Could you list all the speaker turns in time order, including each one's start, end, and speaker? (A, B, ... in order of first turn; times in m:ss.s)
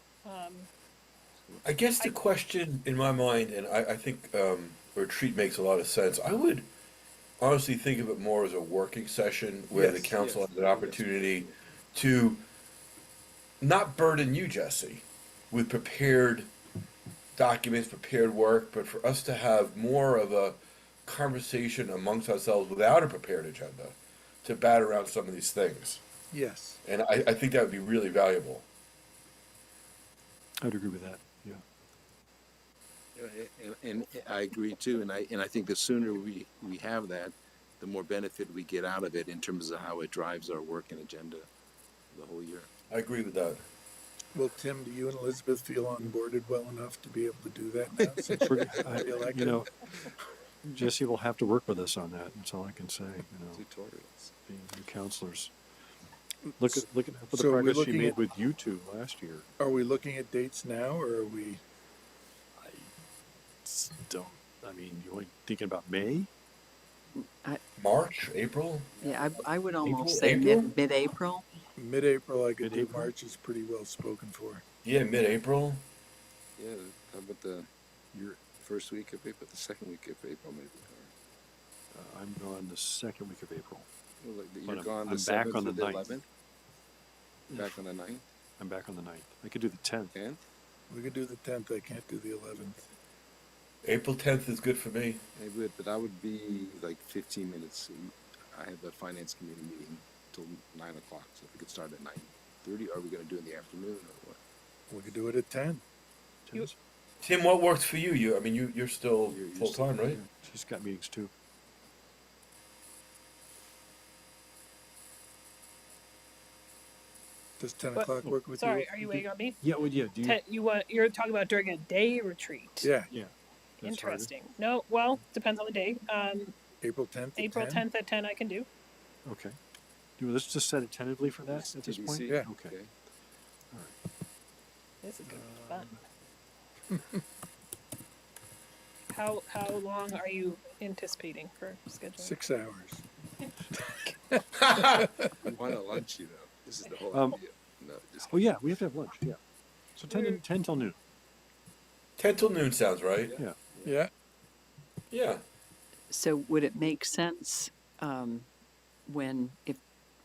0:00.2-0:00.7 A
0:01.6-0:06.7 B
0:07.4-0:12.4 B
0:09.7-0:10.0 C
0:10.1-0:11.5 D
0:13.6-0:16.5 B
0:17.4-0:26.0 B
0:26.3-0:26.8 C
0:26.8-0:28.7 B
0:30.6-0:31.6 E
0:33.1-0:41.5 D
0:42.1-0:42.7 D
0:42.9-0:43.6 B
0:44.3-0:48.4 C
0:47.9-0:49.2 D
0:48.4-0:49.7 E
0:49.1-0:49.6 C
0:50.6-0:53.6 E
0:53.5-0:54.3 D
0:54.5-0:55.5 E
0:56.6-0:59.4 E
0:57.3-0:58.2 C
0:59.6-1:01.6 C
1:02.6-1:02.9 E
1:03.6-1:06.3 E
1:07.2-1:07.6 F
1:07.8-1:08.9 B
1:09.0-1:09.4 D
1:09.1-1:11.4 F
1:09.8-1:10.7 B
1:11.8-1:14.6 C
1:12.6-1:13.1 E
1:14.8-1:15.8 B
1:16.6-1:17.7 D
1:18.1-1:18.4 E
1:18.5-1:21.1 D
1:21.9-1:23.9 E
1:24.2-1:26.2 D
1:24.6-1:26.2 E
1:27.5-1:28.2 D
1:27.5-1:27.8 E
1:28.6-1:30.1 E
1:30.1-1:30.4 D
1:30.9-1:32.9 C
1:33.8-1:35.2 B
1:35.4-1:44.4 D
1:44.9-1:45.8 C
1:46.4-1:46.8 E
1:47.2-1:50.2 B
1:49.3-1:50.3 D
1:50.3-1:51.3 E
1:57.6-1:59.2 C
1:57.9-1:59.6 A
1:59.6-2:00.4 E
2:00.2-2:02.9 A
2:02.8-2:03.1 C
2:03.1-2:04.3 E
2:03.8-2:06.5 A
2:06.8-2:07.8 C
2:07.4-2:08.7 A
2:09.2-2:09.6 E
2:10.2-2:12.7 E
2:11.4-2:12.9 D
2:15.0-2:15.9 A
2:15.2-2:16.0 E
2:19.1-2:22.4 A
2:22.2-2:23.0 C
2:24.6-2:25.1 B
2:25.4-2:28.5 D
2:27.1-2:27.4 E
2:28.3-2:29.4 E
2:30.0-2:31.0 E
2:30.1-2:30.4 A
2:32.2-2:33.4 B
2:33.2-2:34.0 D
2:35.1-2:35.4 B
2:36.1-2:38.4 F
2:39.1-2:39.8 F